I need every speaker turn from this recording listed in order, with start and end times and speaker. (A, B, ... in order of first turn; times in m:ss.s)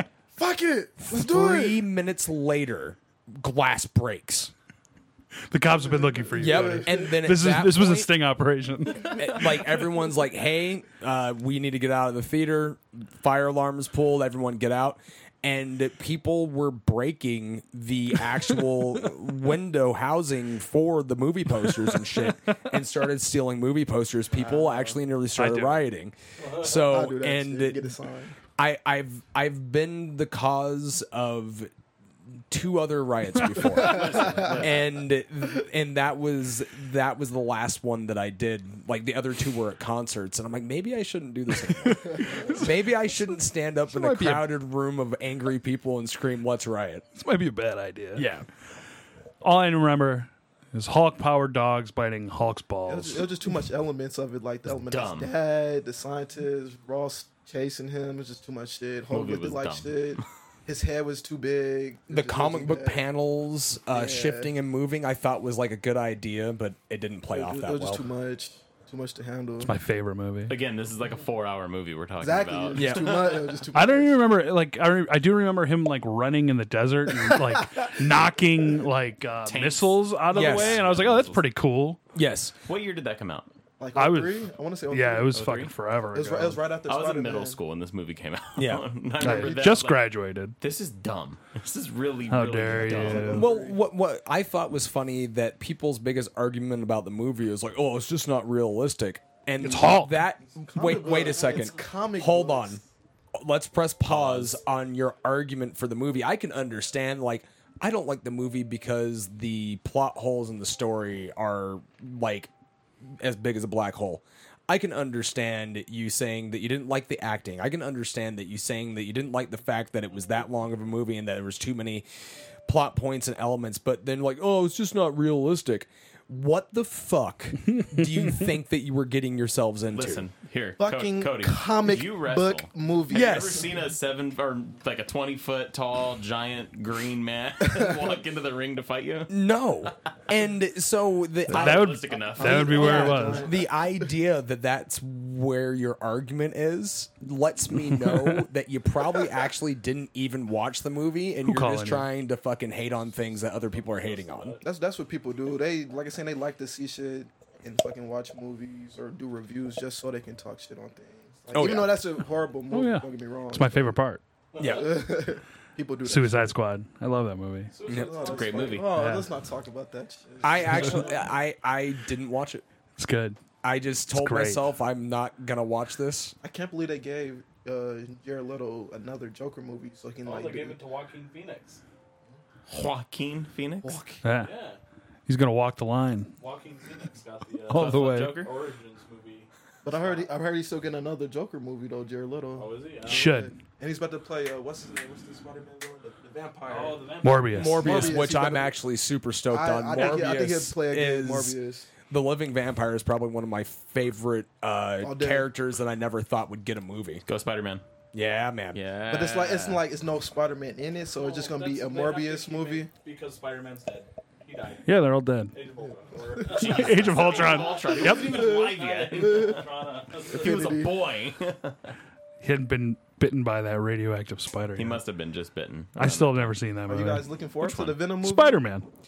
0:00.4-0:01.8 A
0:01.0-0:04.5 B
0:05.5-0:09.4 C
0:05.9-0:06.8 A
0:06.3-0:08.1 B
0:09.1-0:27.8 B
0:24.4-0:24.9 A
0:25.4-0:25.8 C
0:26.6-0:28.4 A
0:28.6-0:31.7 B
0:32.5-0:47.0 B
0:33.4-0:33.7 C
0:33.7-0:34.6 A
0:33.7-0:34.8 D
0:41.7-0:42.6 C
0:43.9-0:44.5 C
0:47.1-0:48.2 C
0:48.2-0:48.4 B
0:49.4-0:53.3 C
0:52.8-1:03.0 A
0:54.9-0:55.3 D
0:59.1-1:00.2 D
1:02.1-1:08.0 B
1:03.9-1:04.5 A
1:07.3-1:09.8 A
1:09.6-1:10.5 C
1:10.5-1:13.6 D
1:12.2-1:14.3 A
1:12.7-1:13.3 B
1:13.7-1:22.0 C
1:17.2-1:17.9 A
1:19.4-1:21.4 D
1:20.3-1:20.8 B
1:22.1-1:22.5 B
1:22.6-1:23.5 D
1:23.8-1:25.4 A
1:23.9-1:26.6 C
1:25.3-1:25.7 D
1:26.1-1:27.6 A
1:26.8-1:30.0 D
1:28.6-1:28.9 B
1:29.2-1:30.6 C
1:29.2-1:29.8 A
1:30.6-1:33.4 D
1:32.3-1:33.5 C
1:32.8-1:33.8 A
1:33.3-1:42.8 B
1:39.6-1:40.2 C
1:40.4-1:42.8 A
1:43.3-1:52.5 B
1:44.0-1:44.6 D
1:53.0-2:02.0 B
2:02.6-2:10.2 B
2:07.7-2:08.3 C
2:09.9-2:19.3 D
2:10.8-2:13.7 A
2:13.1-2:13.7 B
2:19.3-2:22.0 B
2:21.5-2:23.5 C
2:21.5-2:23.1 D
2:22.1-2:24.0 A
2:22.9-2:34.5 B
2:27.9-2:28.4 C
2:31.4-2:32.0 C
2:33.4-2:34.6 E
2:34.6-2:44.0 A
2:41.5-2:42.0 B
2:42.7-2:44.2 C
2:44.5-2:45.1 E
2:44.6-2:44.9 B
2:44.6-2:46.5 A
2:46.0-2:47.7 C
2:47.7-2:48.8 E
2:47.8-2:48.1 B
2:47.9-2:51.2 A
2:48.2-2:48.9 D
2:48.9-2:49.3 C
2:50.4-2:52.6 B
2:53.0-2:53.4 C
2:53.6-2:56.4 B
2:54.1-2:54.6 C
2:56.4-3:00.8 A
3:00.2-3:01.8 E
3:02.7-3:03.9 D
3:03.8-3:04.2 A
3:04.2-3:04.5 C
3:04.4-3:04.8 E
3:05.3-3:06.3 C
3:06.4-3:10.3 E
3:07.7-3:08.4 C
3:07.7-3:08.5 D
3:09.8-3:17.1 A
3:12.6-3:13.3 E
3:13.1-3:13.6 C
3:16.6-3:18.2 E
3:17.2-3:18.1 C
3:17.5-3:21.5 B
3:17.8-3:18.8 A
3:19.5-3:21.9 A
3:22.1-3:27.2 B
3:25.0-3:25.5 A
3:27.2-3:27.8 D
3:28.1-3:28.8 B
3:28.7-3:29.8 D
3:29.1-3:32.9 A
3:31.1-3:40.8 E
3:34.8-3:35.5 C
3:36.4-3:36.7 A
3:36.5-3:39.6 D
3:36.6-3:38.5 C
3:37.6-3:39.7 A
3:40.3-3:40.9 A
3:40.3-3:41.9 D
3:42.4-3:45.0 C
3:44.7-3:46.5 D
3:46.0-3:47.3 C
3:46.9-3:48.6 A
3:47.6-3:48.0 D
3:48.2-3:48.9 C